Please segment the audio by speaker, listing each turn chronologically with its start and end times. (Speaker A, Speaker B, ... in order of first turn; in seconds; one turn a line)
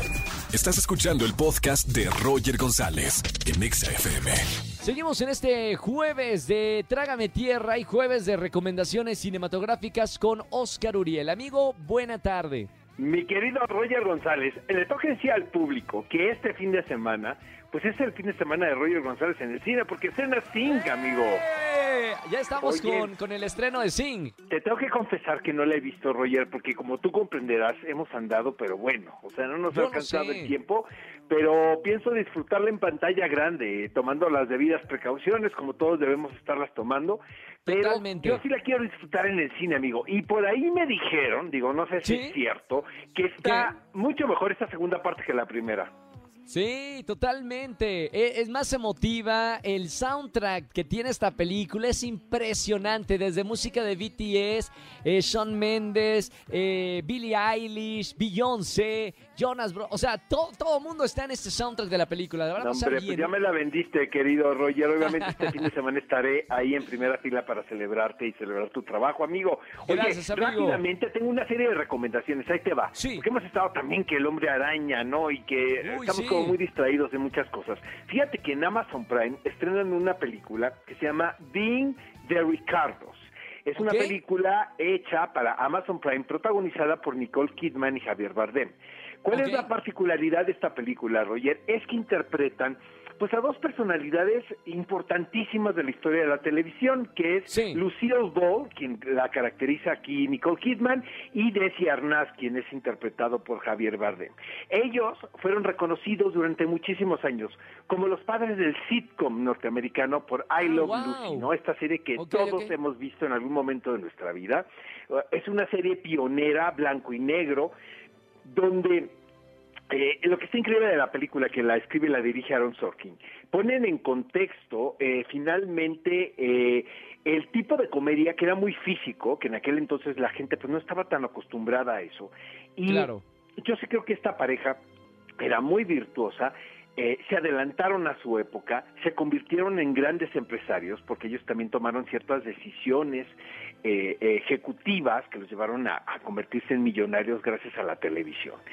Speaker A: 0.5-4.5
Speaker B: 4.8-12.7
Speaker C: 13.0-21.4
Speaker B: 21.4-24.3
Speaker C: 22.6-23.1
Speaker C: 24.5-45.9
Speaker B: 29.7-30.5
Speaker B: 37.6-38.4
Speaker B: 42.0-42.4
Speaker B: 43.4-43.7
Speaker B: 46.5-63.3
Speaker C: 62.6-117.7
Speaker B: 65.0-65.6
Speaker B: 69.9-70.8
Speaker B: 72.9-73.2
Speaker B: 75.8-76.5
Speaker B: 83.8-84.2
Speaker B: 89.3-89.7
Speaker B: 97.5-97.8
Speaker B: 110.6-111.5
Speaker B: 112.2-112.7
Speaker C: 118.4-119.1
Speaker C: 119.9-134.8
Speaker B: 132.9-133.2
Speaker C: 135.4-148.6